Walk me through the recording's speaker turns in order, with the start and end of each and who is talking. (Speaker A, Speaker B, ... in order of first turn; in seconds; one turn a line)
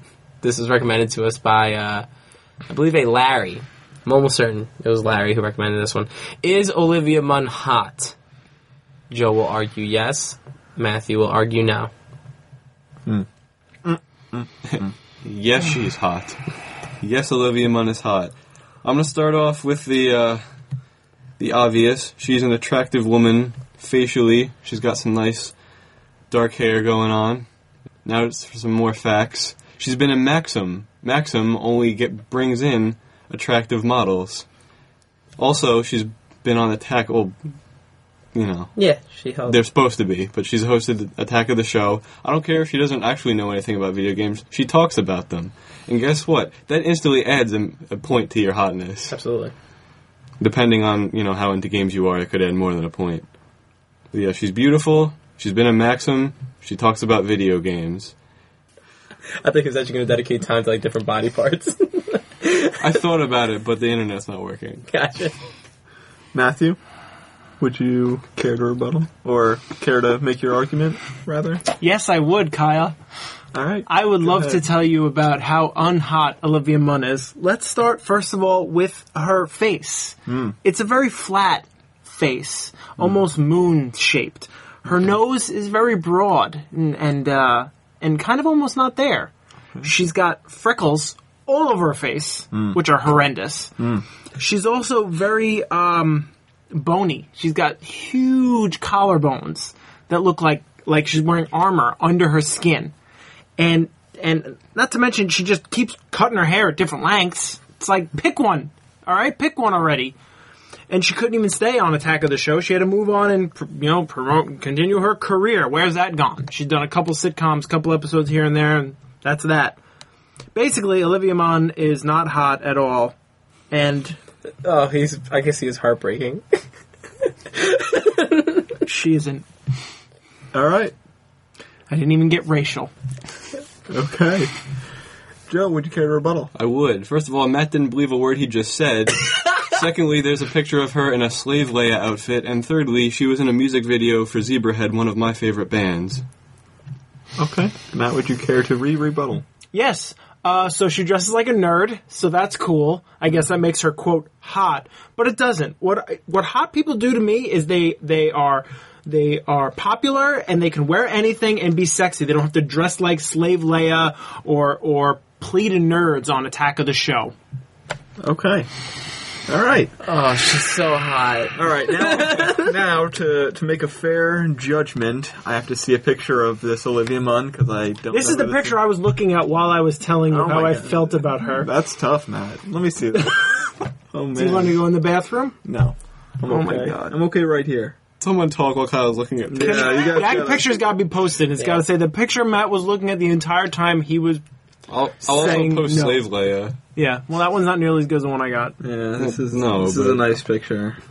Speaker A: 0.4-2.1
Speaker A: 2.7-8.2
Speaker A: 9.1-11.9
Speaker B: 13.8-14.9
Speaker C: 14.7-16.4
Speaker C: 17.0-20.4
Speaker C: 21.4-25.5
Speaker C: 26.3-27.5
Speaker C: 28.0-34.5
Speaker C: 35.4-37.4
Speaker C: 38.3-38.8
Speaker A: 38.8-39.6
Speaker C: 39.5-49.1
Speaker A: 49.1-49.5
Speaker C: 50.4-53.3
Speaker C: 54.1-58.1
Speaker A: 59.4-62.8
Speaker C: 62.8-64.9
Speaker A: 64.9-65.3
Speaker B: 66.3-66.8
Speaker B: 67.6-71.6
Speaker D: 71.8-73.0
Speaker B: 73.5-74.6
Speaker D: 73.9-89.3
Speaker B: 80.3-80.6
Speaker D: 89.8-93.8
Speaker B: 92.5-92.8
Speaker D: 94.4-102.9
Speaker D: 103.6-110.2
Speaker D: 110.9-119.8
Speaker D: 120.5-123.2
Speaker D: 123.7-124.2
Speaker A: 124.6-126.6
Speaker A: 127.5-128.8
Speaker D: 128.9-129.5
Speaker B: 130.5-130.9
Speaker D: 131.9-132.9
Speaker B: 133.9-134.5
Speaker B: 135.5-136.5
Speaker C: 136.6-146.2
Speaker B: 147.4-149.4
Speaker D: 149.7-167.3
Speaker B: 168.2-168.7
Speaker B: 169.5-169.9
Speaker A: 170.0-172.7
Speaker B: 171.6-178.8
Speaker D: 178.1-181.7
Speaker B: 180.3-184.8
Speaker D: 184.3-185.6
Speaker B: 185.7-188.0
Speaker D: 186.5-187.1
Speaker C: 188.2-190.4
Speaker B: 189.5-190.8
Speaker D: 189.6-194.4
Speaker A: 191.6-191.8
Speaker C: 194.9-196.8
Speaker D: 195.2-196.2
Speaker D: 196.9-198.8
Speaker B: 198.8-201.0
Speaker C: 199.2-200.2